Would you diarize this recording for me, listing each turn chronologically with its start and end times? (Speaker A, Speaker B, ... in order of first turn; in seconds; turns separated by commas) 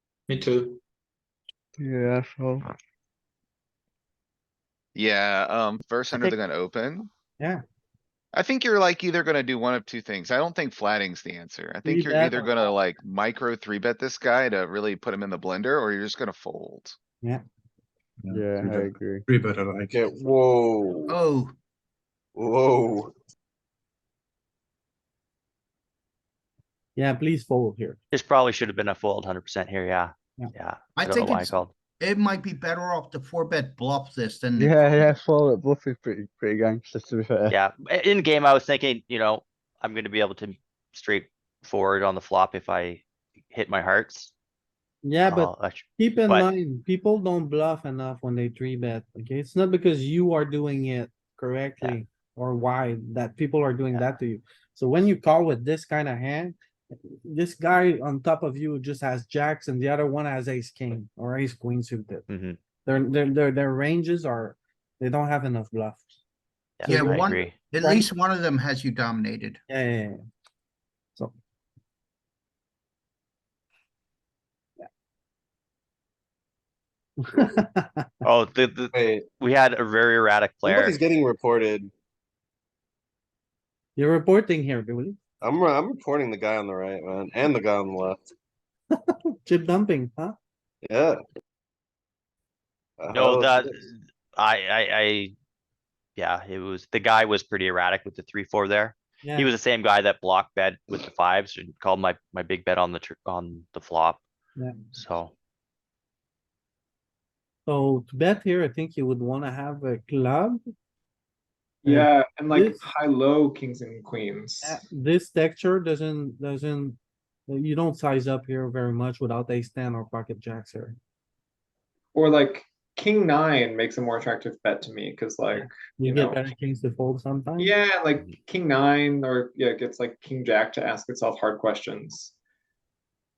Speaker A: 1.8-2.7, Speaker B: 5.0-7.1, Speaker B: 8.3-17.0, Speaker C: 11.8-12.6, Speaker D: 18.2-20.1, Speaker A: 18.3-19.2, Speaker E: 19.9-21.1, Speaker F: 21.1-21.5, Speaker E: 22.4-23.1, Speaker C: 27.0-28.0, Speaker G: 28.1-31.7, Speaker F: 31.0-35.1, Speaker A: 34.6-37.6, Speaker G: 37.5-44.3, Speaker C: 45.0-62.3, Speaker G: 45.2-46.5, Speaker G: 62.3-62.6, Speaker C: 62.9-66.2, Speaker G: 66.8-67.5, Speaker C: 66.8-67.2, Speaker F: 66.8-69.6, Speaker C: 67.8-68.1, Speaker C: 69.7-70.2, Speaker C: 77.2-78.1, Speaker G: 78.2-81.0, Speaker E: 78.9-79.2, Speaker E: 80.6-81.9, Speaker C: 84.0-85.2, Speaker E: 85.4-88.2, Speaker C: 89.0-90.3, Speaker E: 90.8-91.2, Speaker E: 93.0-93.9, Speaker G: 93.1-95.3, Speaker G: 96.2-104.2, Speaker C: 99.2-99.5, Speaker G: 104.9-105.3, Speaker C: 107.7-110.6, Speaker C: 111.9-112.8, Speaker H: 111.9-114.8, Speaker C: 114.6-121.0, Speaker H: 122.2-126.4, Speaker C: 125.6-127.7, Speaker H: 127.6-132.3